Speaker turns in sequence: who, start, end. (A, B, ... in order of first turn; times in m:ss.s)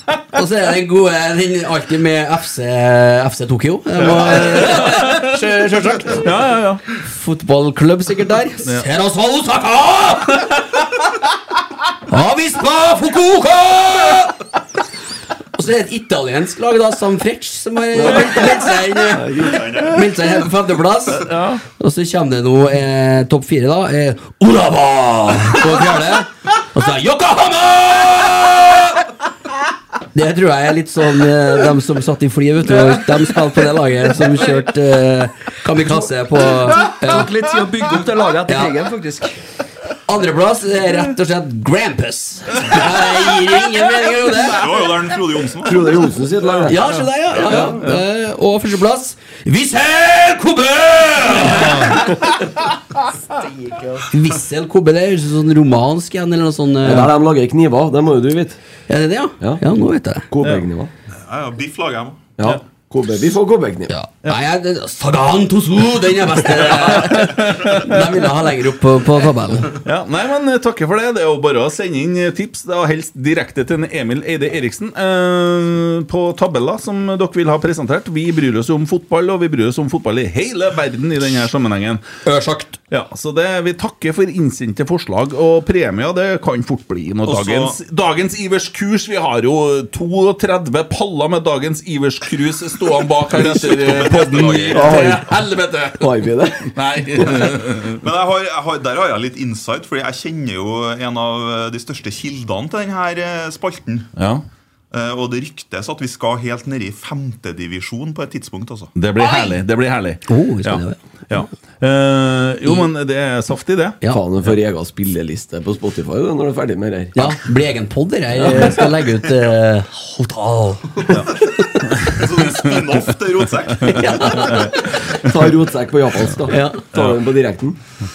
0:00.3-0:06.3 A
0:04.0-0:05.4 B
0:06.2-0:06.8 B
0:07.0-0:10.8 A
0:12.1-0:14.4 A
0:15.6-0:29.1 A
0:17.9-0:19.8 C
0:19.5-0:20.1 D
0:21.2-0:21.6 B
0:30.1-0:37.3 A
0:36.9-0:39.4 E
0:38.5-0:38.7 A
0:40.1-0:44.7 A
0:44.5-0:46.1 D
0:45.6-0:46.8 C
0:46.6-0:52.2 A
0:51.6-0:52.0 B
0:54.1-0:57.1 A
0:56.8-0:58.6 C
0:58.9-1:00.3 A
1:00.3-1:00.9 C
1:01.1-1:02.3 D
1:02.4-1:03.9 C
1:03.9-1:09.8 A
1:06.7-1:08.0 B
1:09.8-1:22.0 B
1:22.2-1:22.8 A
1:22.9-1:38.0 B
1:27.2-1:27.8 D
1:33.3-1:35.2 D
1:34.7-1:35.3 C
1:36.0-1:37.5 C
1:38.0-1:44.1 D
1:44.2-1:44.4 B
1:44.9-1:48.9 D
1:49.0-1:54.0 B
1:50.3-1:51.0 A
1:54.1-1:57.4 C
1:57.2-2:01.1 A
1:58.4-1:58.9 C
2:01.8-2:02.7 B
2:02.1-2:04.5 D
2:03.9-2:05.0 A
2:04.5-2:05.4 B
2:05.0-2:07.8 C
2:06.5-2:06.8 A